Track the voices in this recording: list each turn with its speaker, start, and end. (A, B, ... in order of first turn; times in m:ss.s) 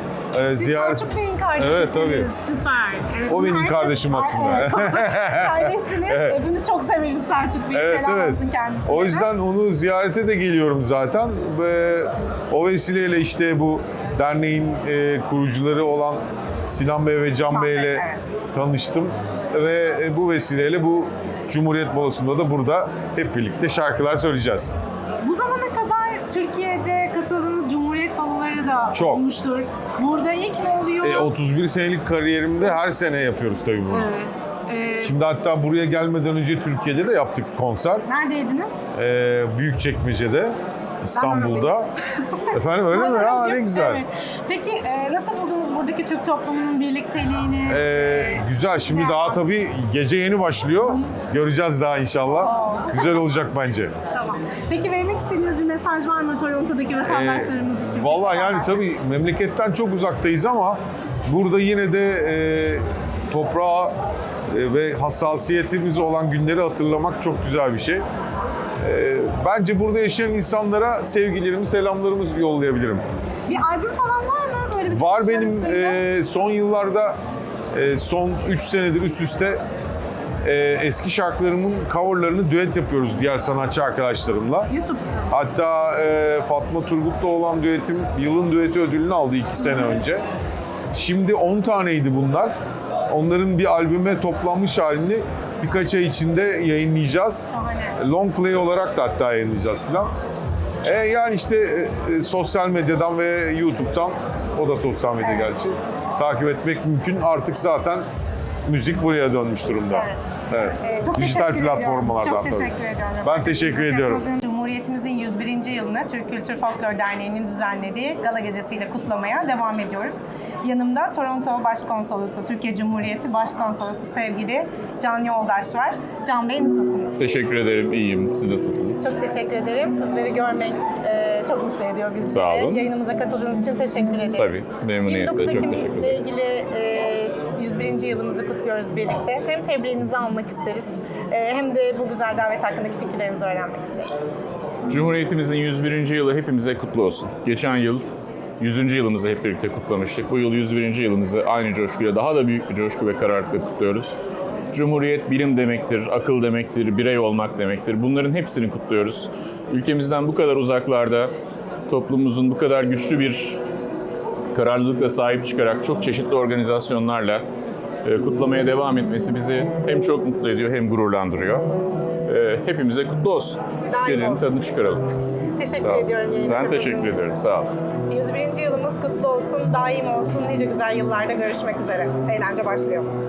0:00.3-0:02.3 A
0:00.6-0:09.3 B
0:03.3-0:06.4 A
0:07.7-0:24.8 A
0:17.5-0:18.2 B
0:25.2-0:31.3 B
0:28.9-0:29.2 A
0:31.0-0:34.1 A
0:33.9-0:35.1 B
0:35.0-0:38.0 A
0:38.1-0:38.8 B
0:38.9-0:41.9 A
0:41.2-0:49.4 B
0:42.5-0:44.0 A
0:47.7-0:53.9 A
0:52.4-0:53.2 B
0:54.1-0:58.7 B
0:57.1-1:04.0 A
1:04.5-1:08.0 A
1:08.8-1:13.0 A
1:13.5-1:16.0 B
1:14.9-1:17.2 A
1:17.7-1:19.6 A
1:20.4-1:24.7 A
1:24.7-1:25.3 B
1:25.3-1:30.2 A
1:29.7-1:29.9 B
1:30.9-1:32.6 A
1:33.1-1:40.1 A
1:37.5-1:38.0 B
1:40.8-1:48.1 A
1:45.2-1:45.6 B
1:48.7-1:54.2 A
1:49.9-2:07.2 B
2:07.2-2:09.1 C
2:09.0-2:24.1 B
2:12.3-2:12.9 C
2:14.4-2:16.2 C
2:24.9-2:34.2 C
2:34.7-2:41.3 C
2:41.9-2:43.6 C
2:44.5-2:47.5 C
2:48.0-2:51.7 C
2:52.3-2:55.1 C
2:53.9-2:54.6 B
2:55.6-2:57.3 B
2:55.8-2:57.7 C
2:58.1-3:03.1 B